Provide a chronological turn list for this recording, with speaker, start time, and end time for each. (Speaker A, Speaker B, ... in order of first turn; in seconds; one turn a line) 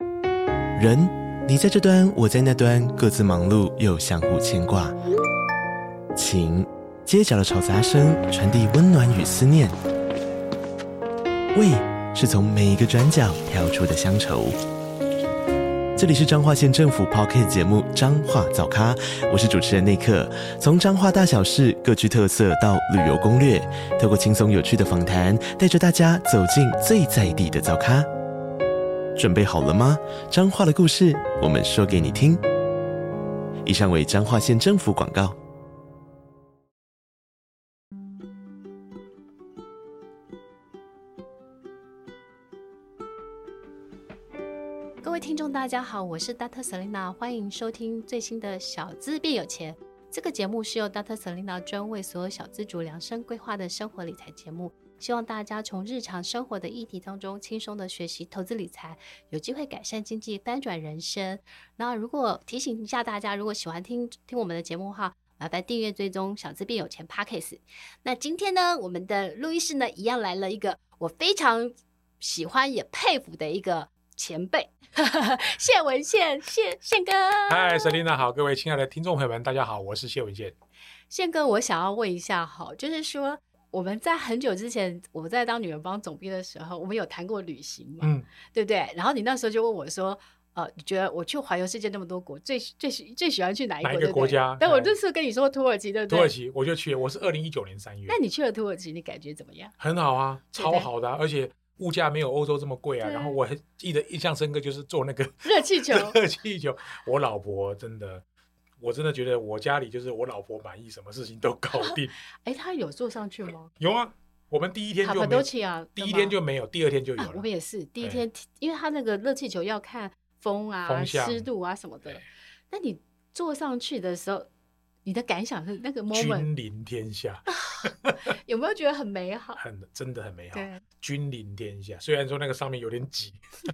Speaker A: 0.8-4.9
Speaker A: 6.2-9.8
Speaker A: 11.5-14.6
Speaker A: 16.0-28.1
Speaker A: 29.1-32.4
Speaker A: 33.6-35.4
Speaker B: 45.0-78.0
Speaker C: 77.5-80.5
Speaker B: 81.1-96.3
Speaker C: 88.0-88.3
Speaker C: 93.8-95.0
Speaker C: 96.1-98.2
Speaker B: 98.1-99.8
Speaker C: 99.8-108.2
Speaker B: 100.5-100.9
Speaker B: 103.0-103.4
Speaker B: 105.4-106.2
Speaker C: 108.8-112.1
Speaker B: 111.7-113.7
Speaker C: 113.8-117.5
Speaker B: 115.0-116.4
Speaker B: 117.2-124.5
Speaker C: 118.0-118.2
Speaker C: 120.8-121.5
Speaker B: 125.0-126.5
Speaker C: 126.1-128.2
Speaker B: 127.5-127.8
Speaker B: 128.4-129.6
Speaker C: 129.6-133.4
Speaker B: 130.5-130.8